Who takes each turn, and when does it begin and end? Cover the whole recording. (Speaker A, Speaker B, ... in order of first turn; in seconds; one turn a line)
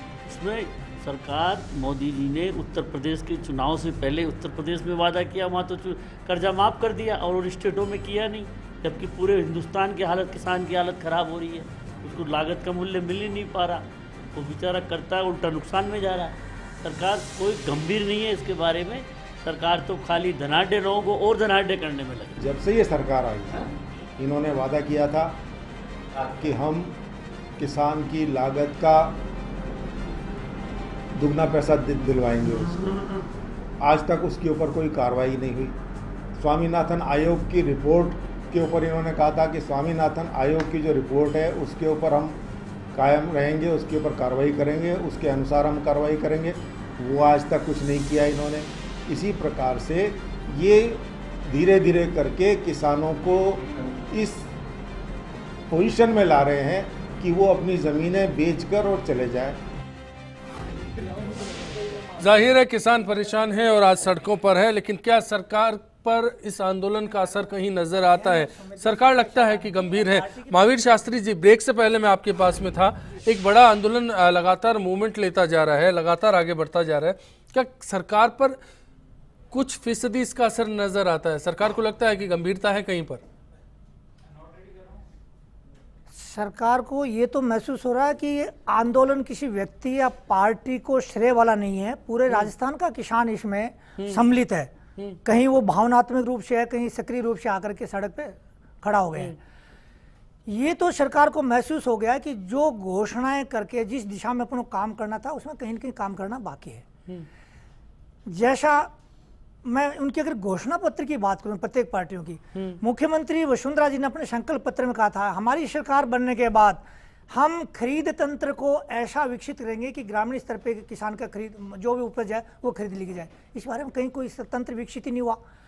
Speaker A: 0.3-13.8
Speaker A: 14.4-22.4
Speaker B: 22.4-23.6
Speaker B: 24.2-25.4
Speaker B: 26.4-27.0
Speaker B: 27.6-29.2
Speaker B: 31.2-32.7
Speaker B: 33.8-35.8
Speaker B: 36.4-42.4
Speaker B: 42.9-54.5
Speaker B: 55.7-59.6
Speaker C: 62.2-78.6
Speaker D: 67.1-67.4
Speaker D: 68.0-70.7
Speaker C: 79.5-83.2
Speaker D: 86.1-94.7
Speaker D: 95.2-99.4
Speaker D: 100.5-106.8
Speaker D: 108.3-108.9
Speaker D: 109.7-125.4